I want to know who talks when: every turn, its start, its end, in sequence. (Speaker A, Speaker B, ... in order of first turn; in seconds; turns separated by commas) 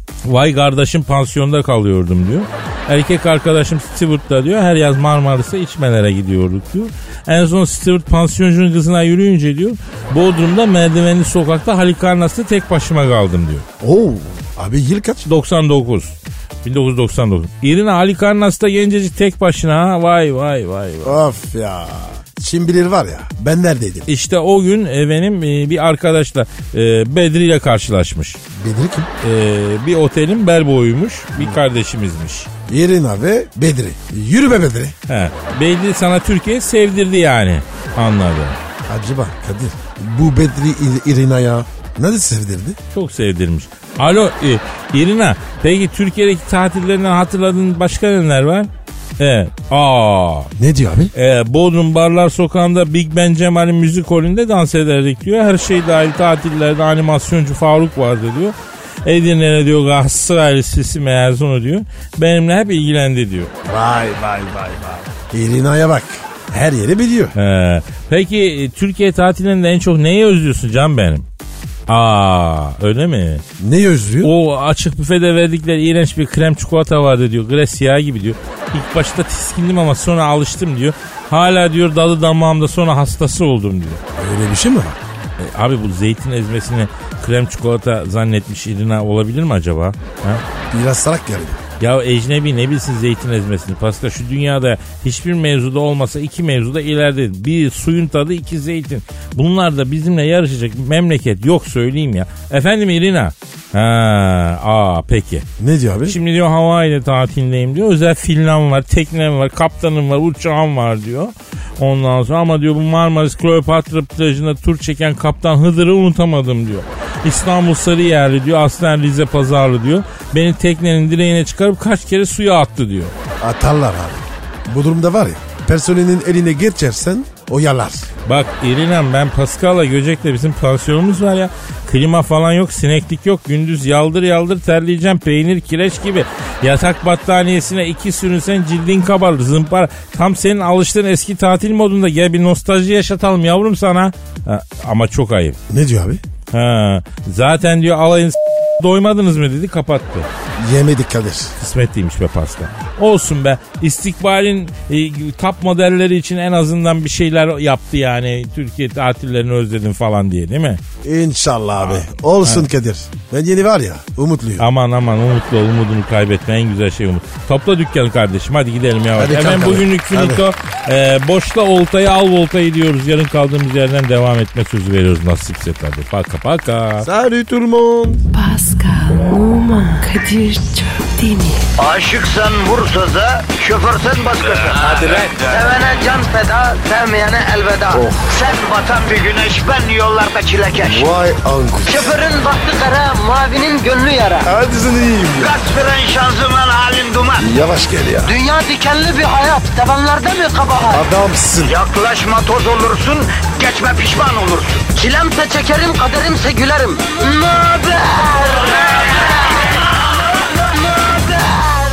Speaker A: 0.2-13.7, Speaker B: 13.8-15.2, Speaker A: 15.2-21.2, Speaker B: 21.0-24.1, Speaker A: 24.1-28.4, Speaker B: 28.5-29.1, Speaker A: 29.2-32.5, Speaker B: 32.7-34.9, Speaker A: 35.1-38.6, Speaker B: 38.9-42.8, Speaker A: 42.9-50.5, Speaker B: 50.6-51.1, Speaker A: 51.1-63.5, Speaker B: 63.6-67.3, Speaker A: 67.3-71.3, Speaker A: 71.9-73.4, Speaker B: 73.6-74.3, Speaker A: 74.2-84.0, Speaker B: 84.2-85.0, Speaker A: 85.4-90.4, Speaker B: 90.7-91.6, Speaker A: 91.8-105.5, Speaker B: 105.6-106.2, Speaker A: 106.0-123.1, Speaker B: 123.4-128.1, Speaker A: 128.2-145.6, Speaker B: 145.7-146.2, Speaker A: 146.5-150.3, Speaker B: 150.6-151.5, Speaker A: 151.6-160.8, Speaker B: 161.0-164.7, Speaker A: 161.8-162.7, Speaker A: 164.6-177.1, Speaker B: 169.2-170.4, Speaker B: 177.0-178.2, Speaker C: 178.3-181.6, Speaker D: 181.8-191.1, Speaker B: 187.9-188.3, Speaker B: 190.8-192.2, Speaker D: 191.8-194.5, Speaker B: 194.4-195.6, Speaker D: 195.4-197.5, Speaker B: 197.4-198.4, Speaker D: 198.2-201.0, Speaker B: 200.9-201.8, Speaker D: 201.6-209.6, Speaker D: 210.4-211.8